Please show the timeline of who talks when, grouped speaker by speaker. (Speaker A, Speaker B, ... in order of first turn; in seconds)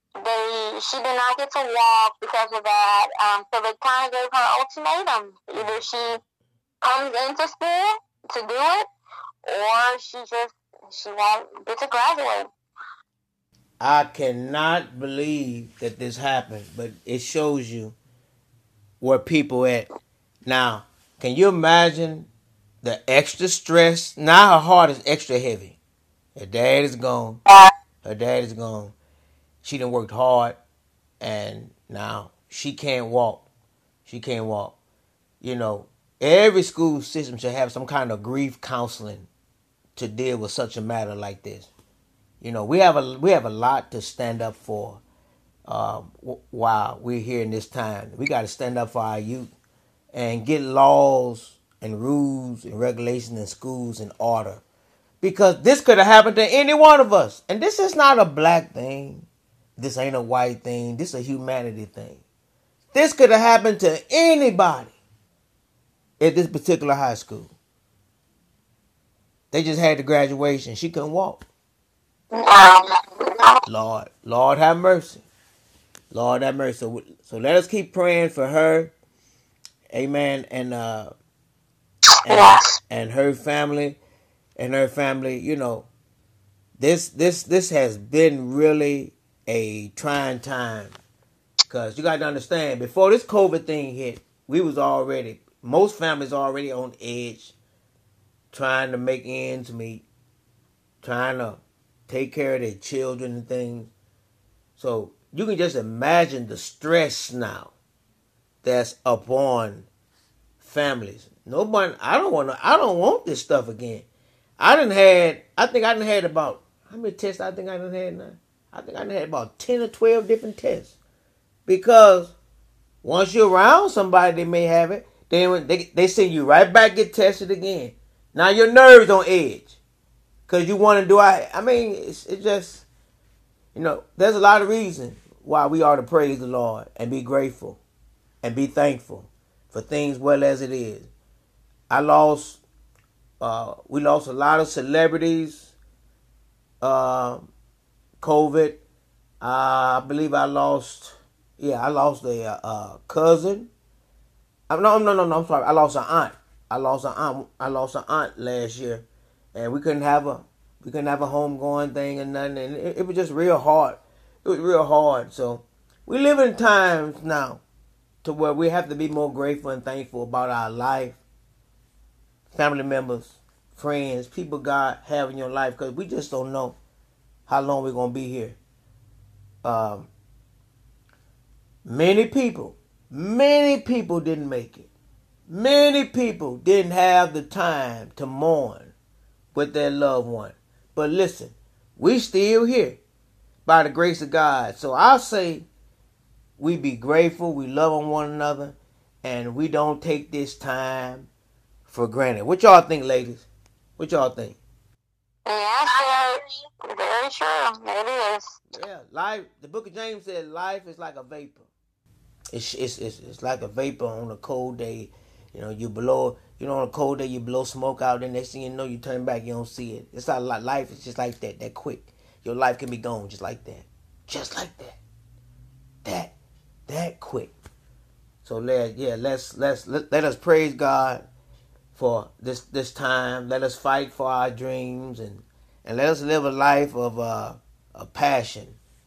Speaker A: 0.2-6.2, 6.8-8.9, 9.4-12.5, 72.3-73.6, 82.3-82.7, 205.4-208.6
Speaker B: 5.5-5.8, 13.8-17.9, 19.0-19.9, 20.4-22.3, 22.8-25.8, 26.4-27.4, 28.0-28.9, 29.6-30.6, 31.2-33.4, 34.0-34.8, 35.4-39.3, 40.0-41.7, 42.4-45.0, 45.6-49.5, 50.1-54.6, 55.2-62.2, 62.9-64.9, 66.2-67.5, 69.5-71.4, 73.7-75.2, 76.1-78.9, 79.9-81.1, 82.2-84.0, 84.5-85.9, 86.8-91.0, 91.7-97.5, 98.5-100.0, 101.0-103.9, 104.8-107.7, 108.6-109.9, 110.6-114.0, 114.6-120.9, 121.7-122.3, 123.0-129.8, 130.5-132.8, 133.7-137.8, 138.4-141.1, 141.9-142.6, 143.4-145.7, 146.8-147.5, 148.2-148.8, 149.4-153.7, 154.7-167.6, 168.2-171.2, 172.5-176.8, 177.5-178.6, 179.6-180.1, 181.8-184.9, 185.5-188.9, 189.5-193.0, 193.7-195.7, 196.6-201.3, 201.9-203.5, 204.0-204.6, 208.7-211.7, 212.5-225.0, 226.0-226.3, 226.9-227.5, 228.4-231.2, 231.9-238.8